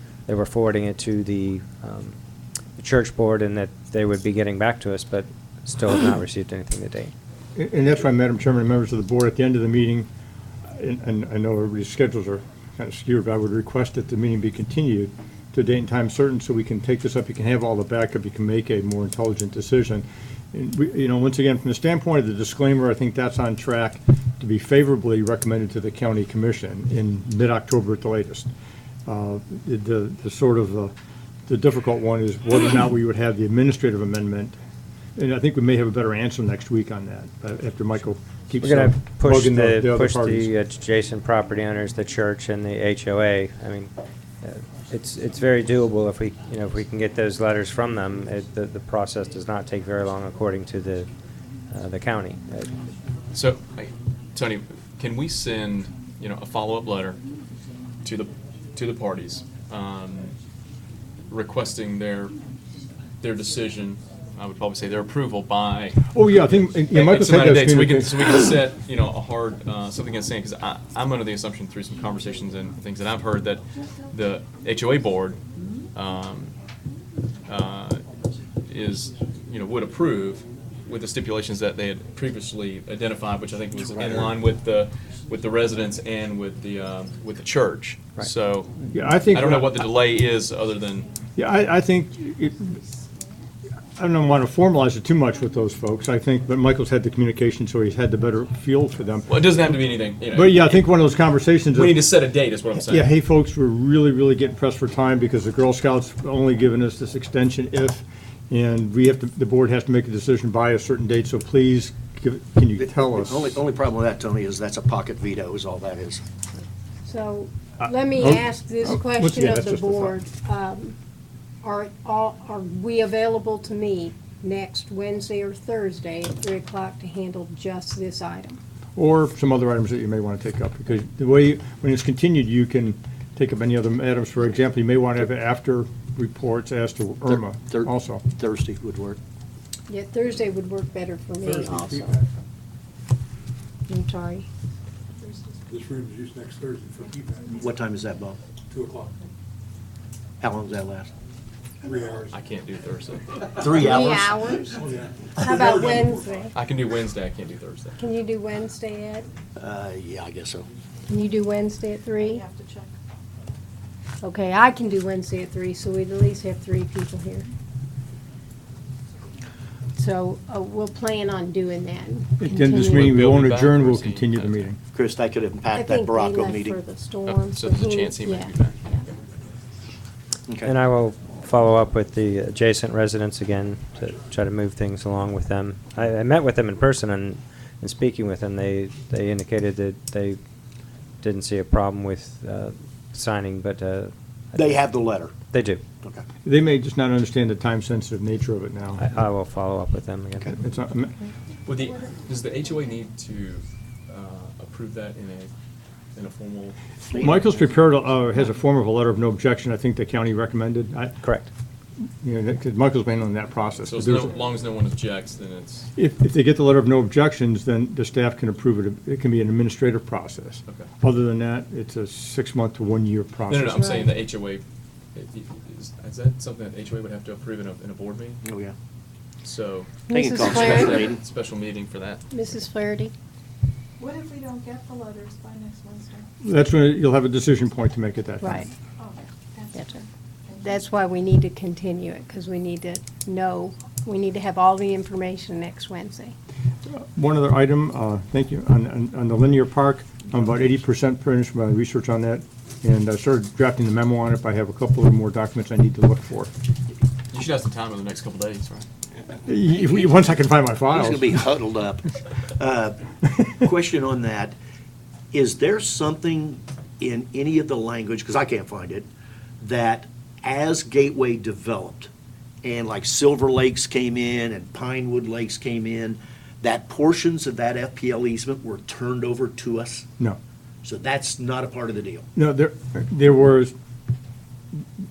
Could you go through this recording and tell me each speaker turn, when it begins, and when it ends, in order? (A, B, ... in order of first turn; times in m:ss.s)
0:00.3-0:02.2 A
0:02.8-0:07.1 A
0:07.6-0:10.1 B
0:10.7-0:28.5 B
0:29.1-0:30.9 B
0:31.5-0:34.6 B
0:35.2-0:40.5 B
0:38.6-0:43.9 A
0:44.4-0:51.1 A
0:51.7-0:52.7 A
0:53.3-0:57.2 C
0:58.0-1:00.3 C
1:01.3-1:02.4 C
1:03.2-1:06.1 C
1:06.1-1:08.3 B
1:06.9-1:15.4 C
1:15.9-1:16.5 C
1:17.5-1:18.0 C
1:18.6-1:31.1 C
1:23.8-1:24.4 D
1:28.9-1:29.8 B
1:31.4-1:32.8 B
1:34.0-1:39.8 B
1:39.3-1:41.0 C
1:40.3-1:42.0 B
1:41.7-1:43.1 C
1:42.8-1:53.5 B
1:52.8-1:56.2 D
1:57.1-2:01.0 E
1:58.2-2:00.2 B
2:01.6-2:08.6 E
2:09.0-2:18.2 B
2:17.3-2:19.2 D
2:19.9-2:22.2 E
2:21.4-2:22.3 F
2:23.9-2:24.5 E
2:25.2-2:25.6 G
2:25.7-2:27.5 F
2:27.5-2:28.4 D
2:28.7-2:29.2 F
2:30.4-2:31.1 D
2:31.8-2:32.3 F
2:32.3-2:33.6 C
2:33.6-2:33.9 F
2:33.6-2:34.4 D
2:33.8-2:34.9 E
2:34.6-2:36.5 F
2:35.4-2:36.6 E
2:36.5-2:38.0 C
2:38.0-2:39.3 E
2:39.6-2:40.7 D
2:41.1-2:42.4 E
2:42.2-2:42.9 G
2:44.2-2:47.5 E
2:50.0-2:53.1 E
2:52.4-2:54.8 B
2:52.8-2:54.7 C
2:54.9-2:56.8 D
2:55.7-2:59.1 E
2:57.2-2:59.2 C
3:00.6-3:10.4 A
3:11.2-3:15.8 A
3:14.6-3:15.3 D
3:16.4-3:19.0 B
3:19.0-3:20.5 A
3:20.5-3:21.1 B
3:21.7-3:25.5 C
3:26.2-3:26.8 C
3:27.1-3:27.4 D
3:27.1-3:31.2 B
3:31.2-3:31.5 A
3:32.2-3:34.3 B
3:33.9-3:35.9 C
3:36.0-3:43.9 B
3:43.5-3:44.6 C
3:45.2-3:48.4 C
3:48.4-3:48.7 D
3:49.4-3:52.2 C
3:50.1-3:51.1 E
3:50.1-3:51.2 D
3:52.3-3:53.1 E
3:54.0-3:56.3 G
3:56.4-3:58.7 B
3:58.4-3:58.7 E
3:59.0-4:00.8 G
3:59.7-4:00.0 E
4:00.6-4:06.4 E
4:06.9-4:16.5 B
4:17.3-4:18.9 C
4:19.5-4:21.4 B
4:19.8-4:20.1 D
4:20.9-4:23.0 D
4:23.6-4:24.6 D
4:25.3-4:29.1 D
4:29.6-4:32.1 D
4:32.6-4:40.1 D
4:40.8-4:42.3 D
4:42.4-4:43.7 B